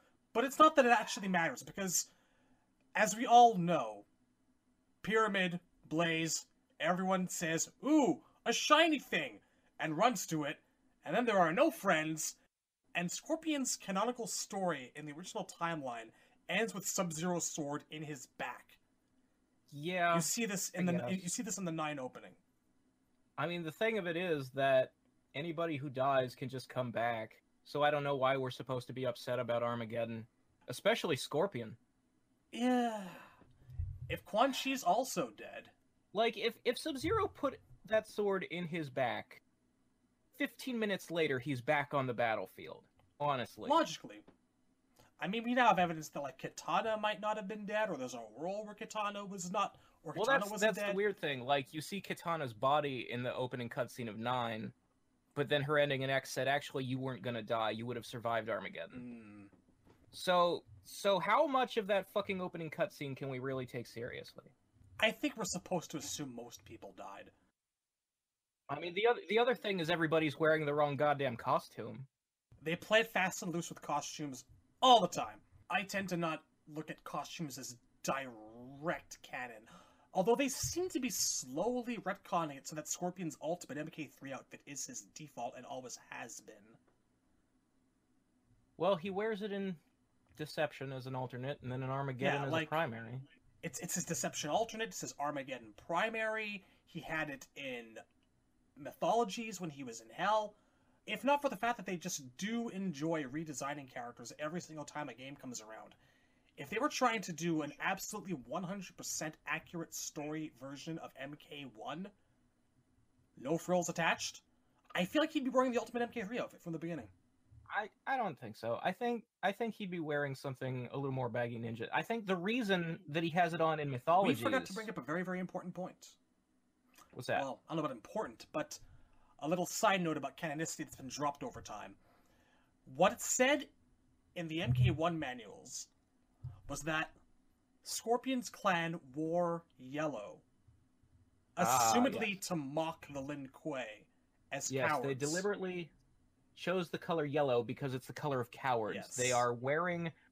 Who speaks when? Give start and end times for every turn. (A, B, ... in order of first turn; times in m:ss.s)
0:00.3-0:02.1 A
0:03.0-0:04.1 A
0:05.0-0:12.4 A
0:13.0-0:18.8 A
0:19.7-0:21.3 B
0:20.1-0:22.4 A
0:23.4-0:31.8 B
0:32.5-0:33.3 A
0:34.1-0:35.7 A
0:36.1-0:39.4 B
0:40.4-0:43.8 B
0:43.6-0:44.2 A
0:45.2-0:51.0 A
0:50.2-0:54.7 B
0:55.4-0:59.0 B
0:58.9-0:59.5 A
1:00.1-1:04.5 B
1:05.0-1:07.3 A
1:08.7-1:12.1 B
1:12.6-1:26.8 A
1:28.8-1:29.8 B
1:30.4-1:33.2 B
1:32.2-1:32.8 A
1:33.6-1:38.0 A
1:38.8-1:46.0 A
1:46.6-1:52.1 A
1:53.4-1:54.4 A
1:55.0-1:57.1 A
1:57.7-2:04.9 B
2:04.2-2:06.2 A
2:07.1-2:07.5 B
2:07.3-2:08.8 A
2:09.4-2:12.0 A
2:12.8-2:13.7 A
2:14.4-2:15.9 A
2:16.7-2:17.2 A
2:17.8-2:20.4 A
2:21.6-2:25.5 A
2:21.6-2:22.4 B
2:24.7-2:25.9 B
2:26.6-2:30.1 B
2:28.9-2:29.5 A